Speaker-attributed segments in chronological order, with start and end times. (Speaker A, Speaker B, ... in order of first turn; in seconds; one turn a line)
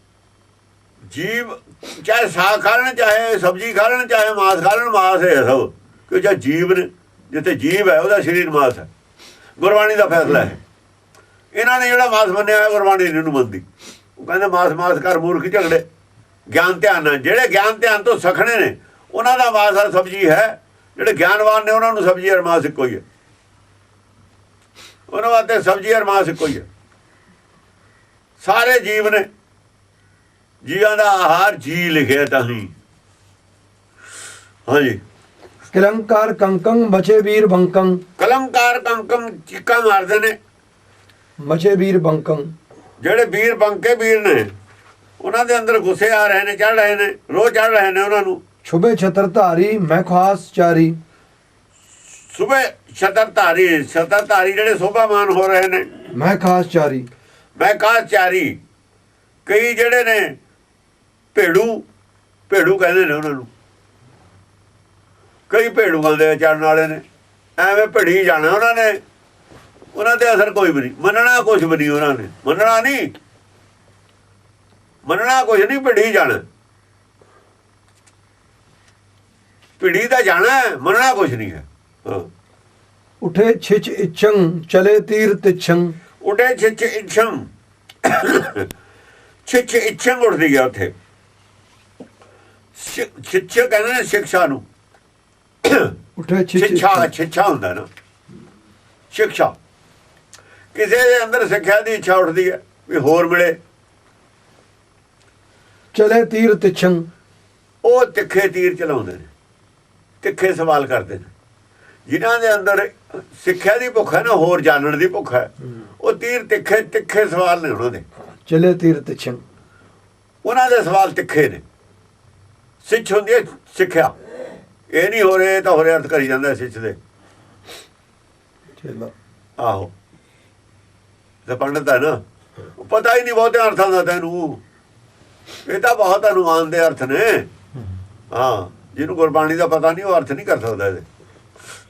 Speaker A: 1.1-8.9
Speaker A: 9.6-10.6
Speaker A: 11.5-13.6
Speaker A: 14.2-15.8
Speaker A: 16.5-23.0
Speaker A: 25.1-26.6
Speaker A: 28.4-29.3
Speaker A: 30.6-32.7
Speaker A: 34.7-35.0
Speaker B: 35.7-38.0
Speaker A: 38.2-40.4
Speaker B: 41.4-42.5
Speaker A: 43.0-44.5
Speaker A: 45.2-48.4
Speaker B: 48.6-51.0
Speaker A: 52.1-55.9
Speaker B: 56.1-57.1
Speaker A: 57.6-58.6
Speaker A: 59.5-60.4
Speaker A: 61.3-61.8
Speaker A: 62.5-63.5
Speaker A: 65.5-67.0
Speaker A: 67.6-69.0
Speaker A: 69.9-73.1
Speaker A: 75.0-76.4
Speaker A: 79.8-82.3
Speaker B: 83.2-85.9
Speaker A: 86.2-87.4
Speaker A: 88.0-88.7
Speaker A: 89.5-90.9
Speaker A: 92.8-94.6
Speaker A: 95.6-95.9
Speaker B: 96.2-97.1
Speaker A: 96.5-97.9
Speaker A: 99.1-99.5
Speaker A: 100.7-103.6
Speaker B: 105.9-107.0
Speaker A: 107.8-109.3
Speaker A: 110.2-111.3
Speaker A: 112.1-118.0
Speaker B: 118.5-119.4
Speaker A: 120.4-121.6
Speaker A: 122.8-124.1
Speaker A: 124.9-127.0
Speaker B: 128.8-129.1
Speaker A: 129.6-129.9
Speaker A: 131.4-132.2
Speaker A: 132.8-134.6
Speaker A: 135.7-137.5
Speaker A: 138.3-141.1